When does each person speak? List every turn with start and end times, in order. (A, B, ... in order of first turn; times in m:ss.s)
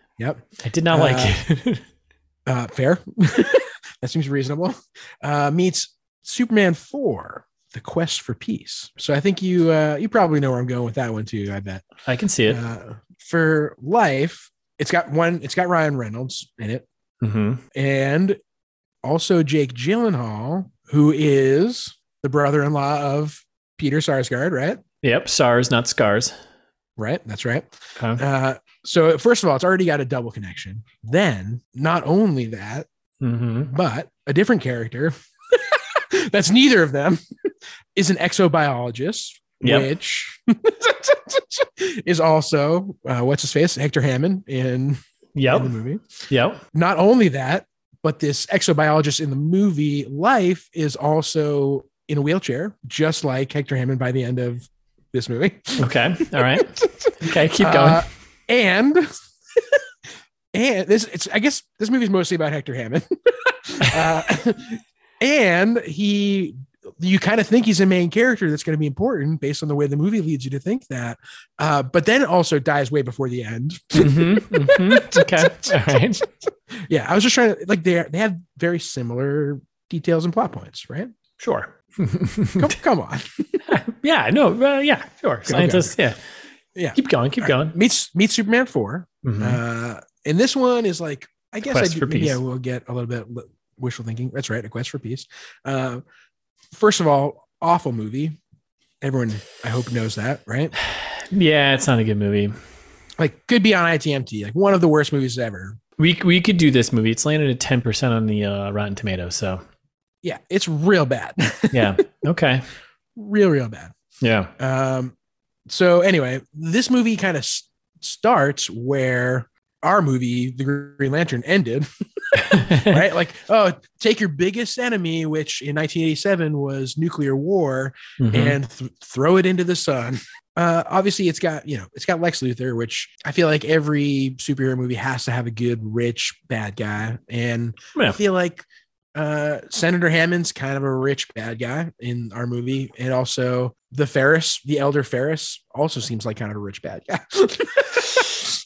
0:00.2-0:01.4 A
0:00.6-0:01.8 B
0:02.4-0:11.8 A
0:12.0-0:12.6 B
0:12.5-0:16.8 A
0:17.2-0:17.6 B
0:17.7-0:18.4 A
0:19.0-0:24.8 A
0:25.0-0:26.3 B
0:27.0-0:32.9 A
0:28.0-0:28.2 B
0:33.2-0:33.7 B
0:33.7-0:37.2 A
0:37.9-0:45.0 A
0:39.6-0:39.9 B
0:45.3-0:45.7 B
0:45.5-0:46.1 A
0:46.3-0:46.6 B
0:46.7-0:59.8 A
0:55.8-0:58.0 B
1:00.5-1:21.1 A
1:13.9-1:16.2 B
1:21.4-1:22.7 B
1:22.6-1:23.6 A
1:23.7-1:26.2 B
1:25.5-1:25.9 A
1:26.8-1:36.0 A
1:26.9-1:27.7 B
1:29.2-1:29.6 B
1:31.6-1:32.4 B
1:36.7-1:38.4 A
1:39.0-1:40.7 A
1:40.9-1:42.5 B
1:43.2-1:45.8 A
1:46.0-1:49.6 B
1:50.2-1:51.9 A
1:51.7-1:52.6 B
1:53.1-1:53.9 A
1:54.2-1:54.5 B
1:54.6-1:55.1 A
1:55.7-2:28.5 A
2:02.4-2:03.0 B
2:08.2-2:08.6 B